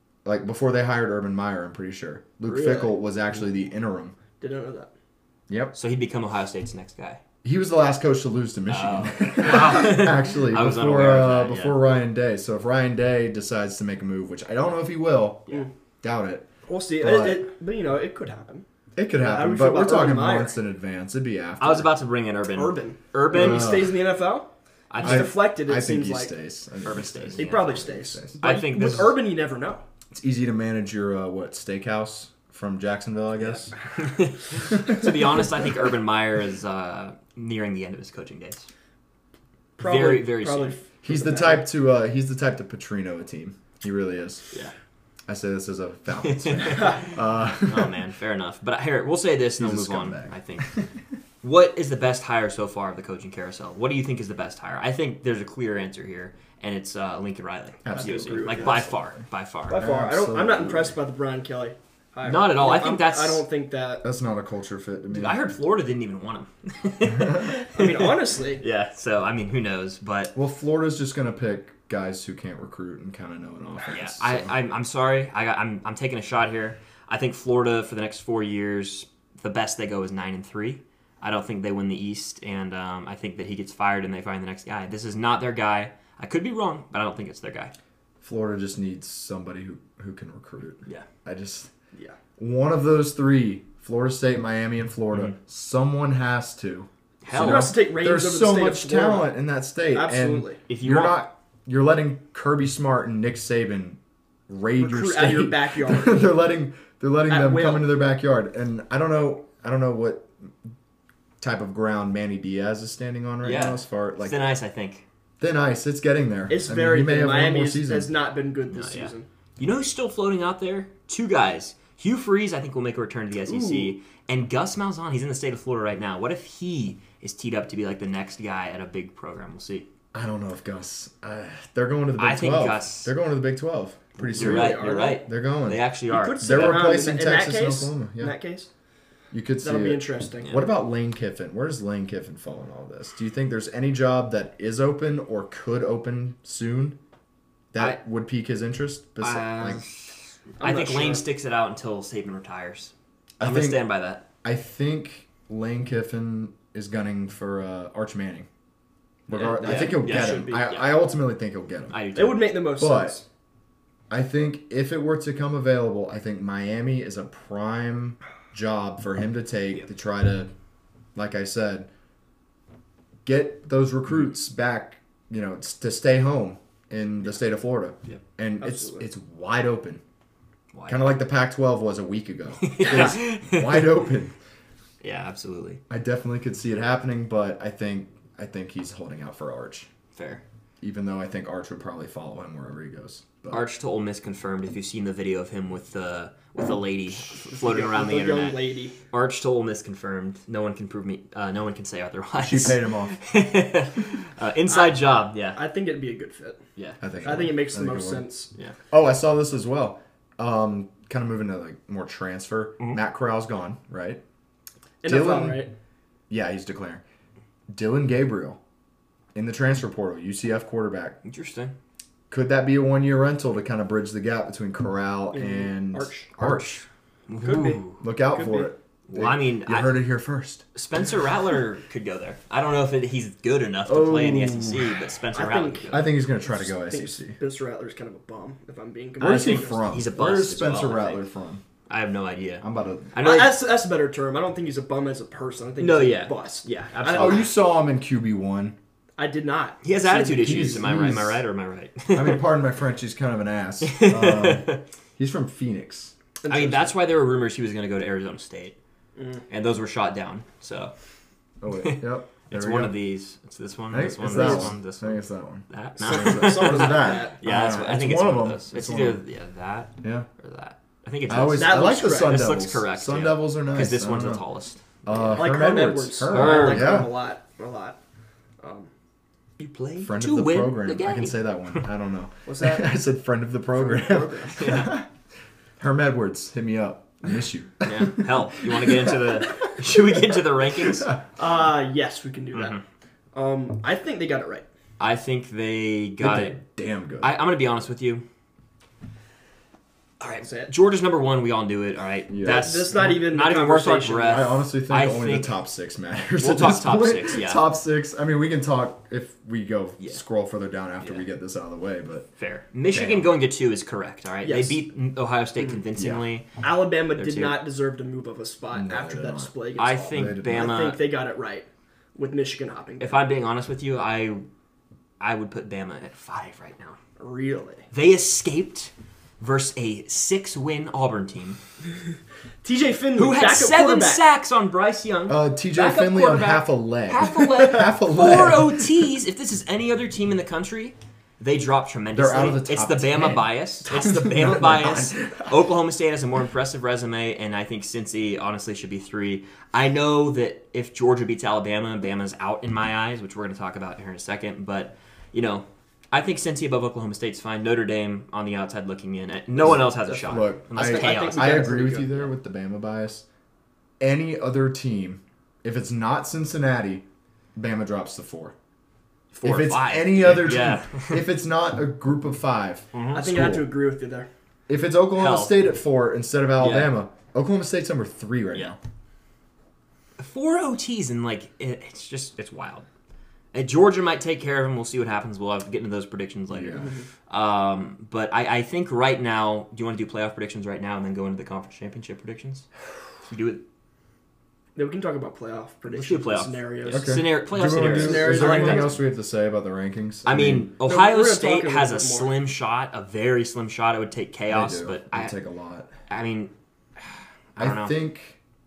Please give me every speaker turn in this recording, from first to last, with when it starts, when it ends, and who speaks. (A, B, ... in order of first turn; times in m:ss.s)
0:00.2-0:04.2 A
0:02.4-0:02.9 B
0:04.4-0:04.9 B
0:05.5-0:05.8 A
0:05.7-0:07.2 C
0:07.4-0:16.5 A
0:08.7-0:11.8 C
0:16.7-0:18.6 B
0:17.0-0:17.4 A
0:19.0-0:21.9 A
0:19.2-0:20.6 B
0:21.6-0:23.8 C
0:22.6-0:26.3 B
0:23.3-0:24.0 A
0:24.9-0:25.4 C
0:25.0-0:28.4 A
0:26.8-0:27.8 C
0:27.4-0:29.8 B
0:28.4-0:29.2 C
0:30.1-0:33.8 A
0:34.0-0:38.7 C
0:34.6-0:35.1 A
0:39.8-0:41.7 B
0:39.8-0:40.8 C
0:41.0-0:44.5 A
0:45.3-0:48.0 A
0:46.2-0:47.2 C
0:47.7-0:50.8 C
0:49.6-0:51.0 A
0:51.4-0:59.8 C
0:57.8-0:59.2 A
0:57.9-0:58.9 B
0:59.7-1:04.0 B
0:59.8-1:01.0 A
1:02.2-1:03.4 C
1:04.0-1:05.4 A
1:05.1-1:10.3 C
1:07.1-1:07.4 A
1:07.7-1:08.6 B
1:10.3-1:14.5 A
1:13.9-1:27.7 C
1:28.2-1:31.7 A
1:32.4-1:50.5 A
1:37.2-1:37.7 C
1:37.3-1:39.3 B
1:39.9-1:40.6 B
1:40.7-1:41.2 C
1:44.8-1:46.3 B
1:47.3-1:47.9 B
1:51.4-1:54.4 A
1:53.4-1:55.0 C
1:55.4-1:58.1 A
1:56.5-1:59.3 B
1:58.7-2:09.9 C
2:03.5-2:03.9 B
2:10.1-2:15.9 A
2:12.2-2:13.1 C
2:14.2-2:16.9 C
2:14.3-2:15.2 B
2:16.1-2:18.7 B
2:16.4-2:18.4 A
2:19.3-2:27.0 A
2:19.6-2:20.5 B
2:27.7-2:29.8 A
2:29.2-2:34.2 C
2:30.6-2:31.2 B
2:33.4-2:33.8 A
2:34.4-2:38.5 A
2:39.3-2:42.0 A
2:39.3-2:40.8 B
2:39.6-2:40.8 C
2:41.9-2:42.5 C
2:42.2-2:43.2 B
2:42.8-2:43.2 A
2:44.1-2:50.5 A
2:51.2-2:51.9 A
2:53.2-3:00.0 A
2:58.6-2:59.1 B
3:00.7-3:01.1 C
3:00.9-3:04.3 A
3:02.6-3:04.0 C
3:02.8-3:03.2 B
3:05.0-3:05.8 C
3:05.9-3:09.9 A
3:10.2-3:10.4 C
3:10.8-3:13.6 A
3:13.5-3:25.6 C
3:17.3-3:19.0 B
3:22.4-3:23.2 A
3:24.7-3:25.0 B
3:25.6-3:26.6 B
3:27.0-3:28.3 A
3:27.2-3:28.5 B
3:28.9-3:34.2 A
3:35.0-3:35.7 B
3:35.1-3:35.6 A
3:36.3-3:37.0 A
3:37.7-3:38.6 A
3:39.3-3:41.2 A
3:41.2-3:41.8 C
3:42.3-3:46.8 A
3:45.3-3:46.4 B
3:46.4-3:48.0 C
3:47.4-3:48.7 B
3:48.0-3:50.6 A
3:49.1-3:50.0 C
3:50.7-3:56.1 C
3:53.9-3:55.0 A
3:55.3-3:59.8 B
3:55.9-3:57.4 A
3:59.2-4:01.6 A
3:59.4-4:01.2 C
4:01.9-4:03.6 C
4:02.6-4:03.1 A
4:03.2-4:07.5 B
4:05.8-4:07.5 C
4:07.1-4:08.8 A
4:09.2-4:10.9 B
4:09.8-4:12.4 C
4:10.3-4:11.4 A
4:12.1-4:16.2 A
4:13.8-4:14.8 C
4:16.4-4:16.9 B
4:16.5-4:18.8 C
4:19.2-4:19.4 B
4:19.5-4:20.9 C
4:21.6-4:23.0 A
4:21.8-4:35.6 C
4:23.9-4:29.2 A
4:24.3-4:24.7 B
4:26.0-4:27.4 B
4:30.0-4:30.3 A
4:31.3-4:34.4 A
4:31.5-4:32.4 B
4:35.0-4:37.2 A
4:35.4-4:38.0 B
4:36.3-4:37.0 C
4:38.6-4:38.9 B
4:39.6-4:41.8 C
4:40.0-4:45.1 A
4:42.5-4:43.0 B
4:43.8-4:44.7 B
4:44.6-4:45.0 C
4:45.8-4:49.4 A
4:47.8-4:51.1 C
4:51.4-4:52.8 B
4:52.5-4:52.8 C
4:53.3-4:54.7 B
4:55.0-4:56.6 C
4:56.2-4:57.3 A
4:57.2-4:58.2 C
5:00.2-5:05.5 C
5:00.4-5:00.7 B
5:02.3-5:03.1 A
5:02.5-5:04.6 B
5:04.3-5:12.3 A
5:06.4-5:07.6 C
5:12.4-5:16.6 C
5:12.9-5:13.3 A
5:14.4-5:14.8 B
5:15.6-5:15.8 B
5:16.0-5:16.2 A
5:16.6-5:23.2 B
5:17.1-5:17.6 C
5:18.7-5:19.5 A
5:19.8-5:21.0 C
5:20.1-5:20.8 A
5:23.0-5:24.4 C
5:25.2-5:27.0 C
5:27.2-5:27.9 B
5:27.9-5:31.6 C
5:32.6-5:34.2 B
5:33.2-6:01.7 C
5:35.3-5:39.1 A
5:42.1-5:45.5 A
5:59.6-6:02.3 B
5:59.6-6:03.2 A
6:04.0-6:08.6 A
6:09.3-6:11.3 C
6:09.4-6:13.7 A
6:12.9-6:13.3 C
6:13.1-6:14.3 B
6:14.7-6:18.8 A
6:15.2-6:15.6 C
6:16.6-6:17.0 C
6:20.2-6:22.9 C
6:23.5-6:32.7 C
6:26.5-6:26.9 A
6:26.8-6:27.0 B
6:33.3-6:33.6 C
6:34.8-6:39.0 B
6:35.9-6:39.0 C
6:36.9-6:40.7 A
6:40.2-6:45.4 C
6:40.9-6:42.3 B
6:44.5-6:45.9 A
6:46.1-6:48.0 C
6:47.6-6:48.4 A